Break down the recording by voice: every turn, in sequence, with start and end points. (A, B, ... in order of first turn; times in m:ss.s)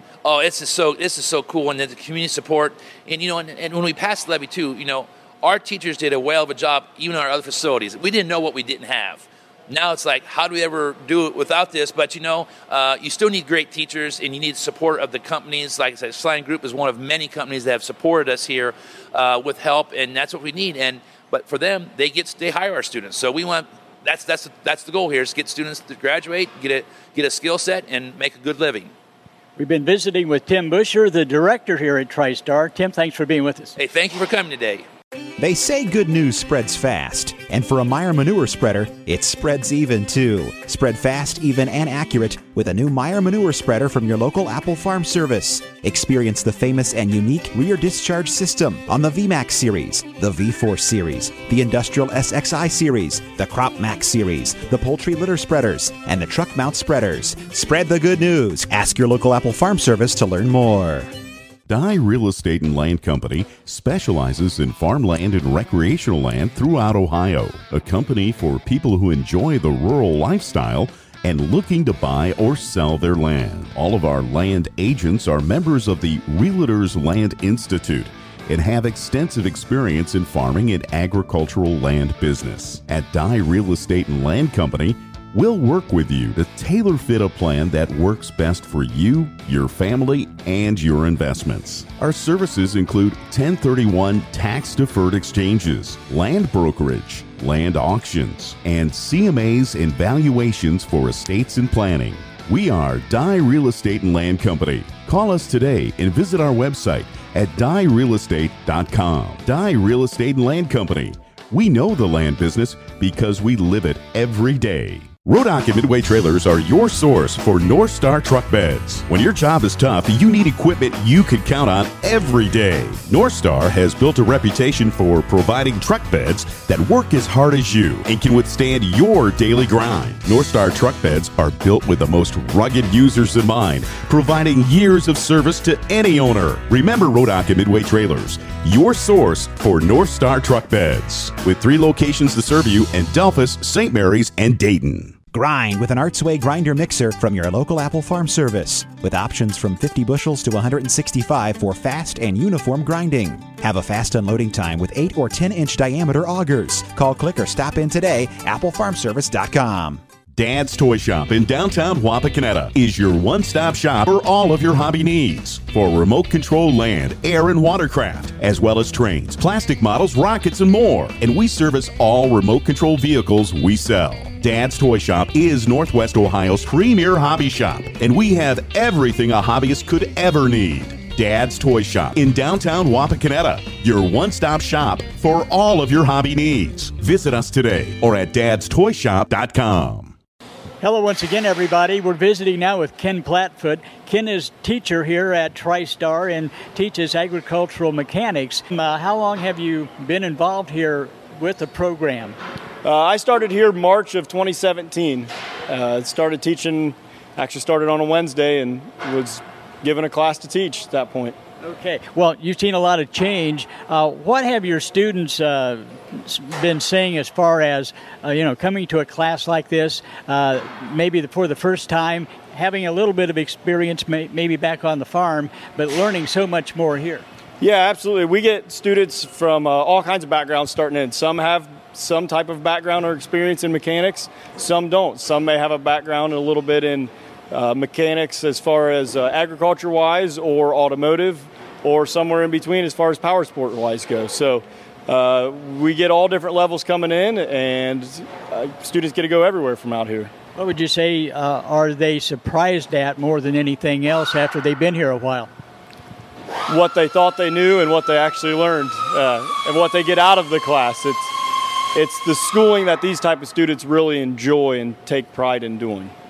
0:00.2-0:28.9 A
0:29.6-0:33.7 B
0:33.8-0:34.8 A
0:35.4-1:01.1 C
1:01.7-2:25.2 D
2:25.3-2:40.0 C
2:40.3-3:10.1 D
3:10.8-3:22.4 B
3:22.8-3:31.3 E
3:31.6-3:47.2 B
3:47.6-4:10.3 E
4:10.6-4:15.5 B
4:16.7-4:21.3 E
4:21.9-4:26.1 E